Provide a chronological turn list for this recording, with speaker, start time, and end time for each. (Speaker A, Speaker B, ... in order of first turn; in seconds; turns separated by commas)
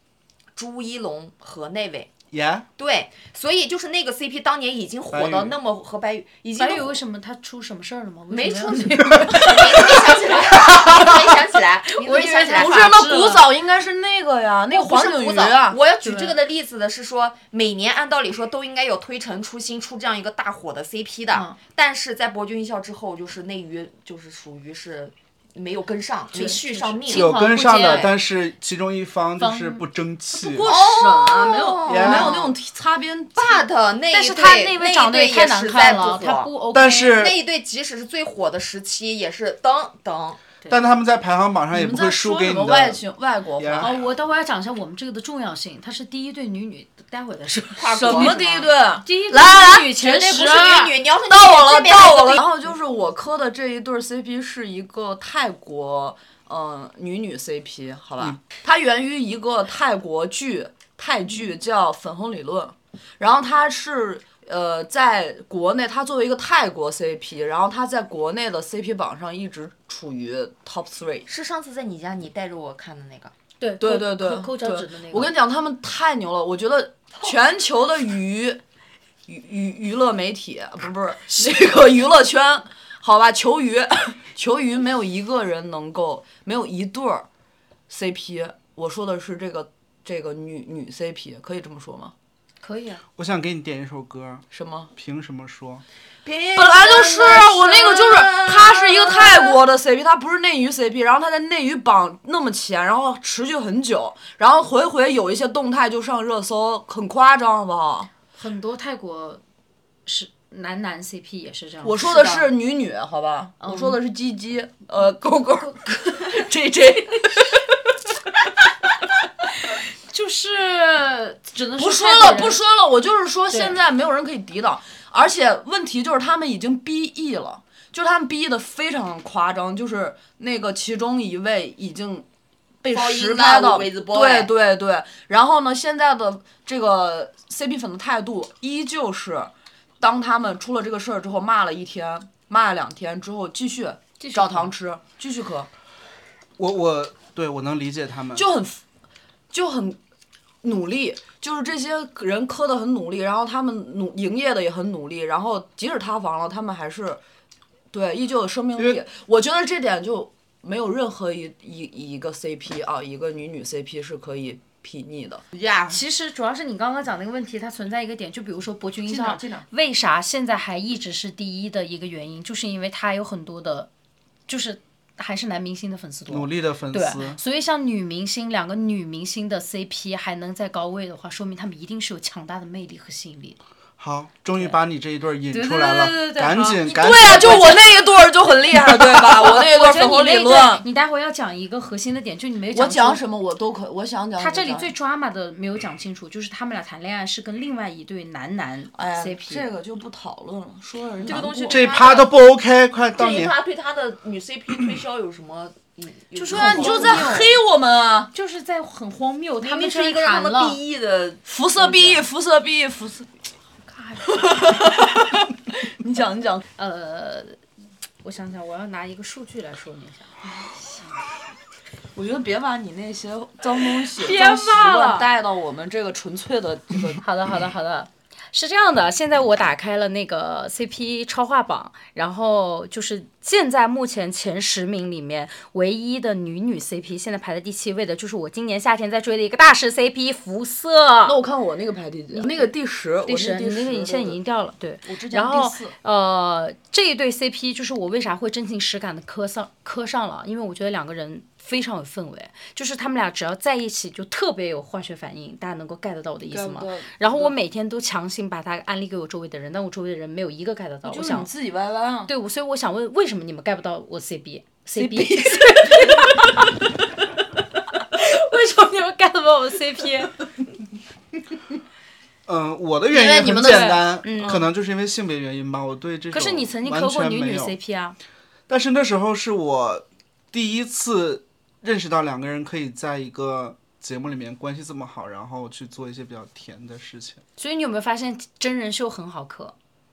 Speaker A: 0.6-2.1, Speaker B: 2.3-2.7, Speaker A: 2.8-7.0, Speaker B: 5.1-5.6, Speaker C: 6.6-11.3, Speaker A: 8.3-13.0, Speaker C: 11.9-13.4, Speaker D: 12.5-15.8, Speaker A: 14.7-27.3, Speaker C: 16.0-16.4, Speaker C: 26.3-28.1, Speaker B: 27.1-30.7, Speaker C: 29.4-29.8, Speaker D: 30.4-33.7, Speaker A: 30.7-32.5, Speaker B: 31.9-32.5, Speaker A: 33.4-36.5, Speaker C: 34.1-37.2, Speaker B: 36.7-37.4, Speaker A: 37.1-40.4, Speaker B: 40.7-43.0, Speaker D: 41.7-44.0, Speaker B: 43.6-43.9, Speaker C: 43.8-50.8, Speaker A: 47.8-48.7, Speaker D: 47.9-71.3, Speaker A: 50.3-52.4, Speaker A: 71.3-73.3, Speaker C: 73.6-75.3, Speaker D: 73.8-78.6, Speaker D: 79.3-87.3, Speaker D: 87.9-92.1, Speaker C: 92.6-93.0, Speaker B: 93.2-94.4, Speaker D: 94.5-94.9, Speaker B: 95.0-95.8, Speaker A: 96.2-99.6, Speaker D: 96.5-108.1, Speaker C: 108.3-109.4, Speaker C: 110.1-112.4, Speaker D: 111.8-117.8, Speaker A: 112.0-112.5, Speaker C: 113.6-114.0, Speaker C: 119.6-122.6, Speaker D: 121.8-132.3, Speaker C: 123.5-123.8, Speaker D: 132.8-145.7, Speaker A: 132.9-134.5, Speaker C: 144.2-144.7, Speaker B: 146.6-148.5, Speaker D: 148.4-148.8, Speaker D: 149.5-150.0, Speaker D: 150.6-157.2, Speaker D: 157.9-165.4, Speaker B: 158.8-159.0, Speaker A: 165.5-166.0, Speaker C: 165.9-173.9, Speaker D: 169.1-169.7, Speaker C: 174.5-183.6, Speaker B: 176.3-177.4, Speaker B: 184.0-187.8, Speaker C: 185.5-187.9, Speaker D: 186.9-190.8, Speaker C: 189.5-193.2, Speaker D: 192.7-194.9, Speaker C: 194.4-199.7, Speaker D: 198.9-201.8, Speaker C: 201.3-202.0, Speaker A: 201.3-202.3, Speaker B: 201.7-203.6, Speaker A: 203.2-207.4, Speaker C: 206.3-207.5, Speaker D: 206.5-208.3, Speaker C: 208.3-210.8, Speaker A: 209.6-211.4, Speaker D: 211.5-213.3, Speaker C: 211.8-212.2, Speaker C: 213.8-215.0, Speaker D: 214.3-216.7, Speaker C: 216.8-217.6, Speaker C: 218.2-220.3, Speaker D: 220.6-221.1, Speaker D: 222.2-227.2, Speaker C: 224.2-225.3, Speaker C: 227.2-241.4, Speaker D: 241.3-244.4, Speaker C: 242.3-242.7, Speaker C: 243.3-261.5, Speaker D: 245.0-245.9, Speaker D: 256.5-257.6, Speaker D: 261.0-262.3, Speaker C: 262.3-266.8, Speaker D: 264.9-266.3, Speaker C: 268.1-270.4, Speaker B: 272.5-277.8, Speaker D: 273.1-274.6, Speaker C: 273.5-274.6, Speaker C: 276.3-278.2, Speaker B: 278.7-287.4, Speaker C: 287.6-289.8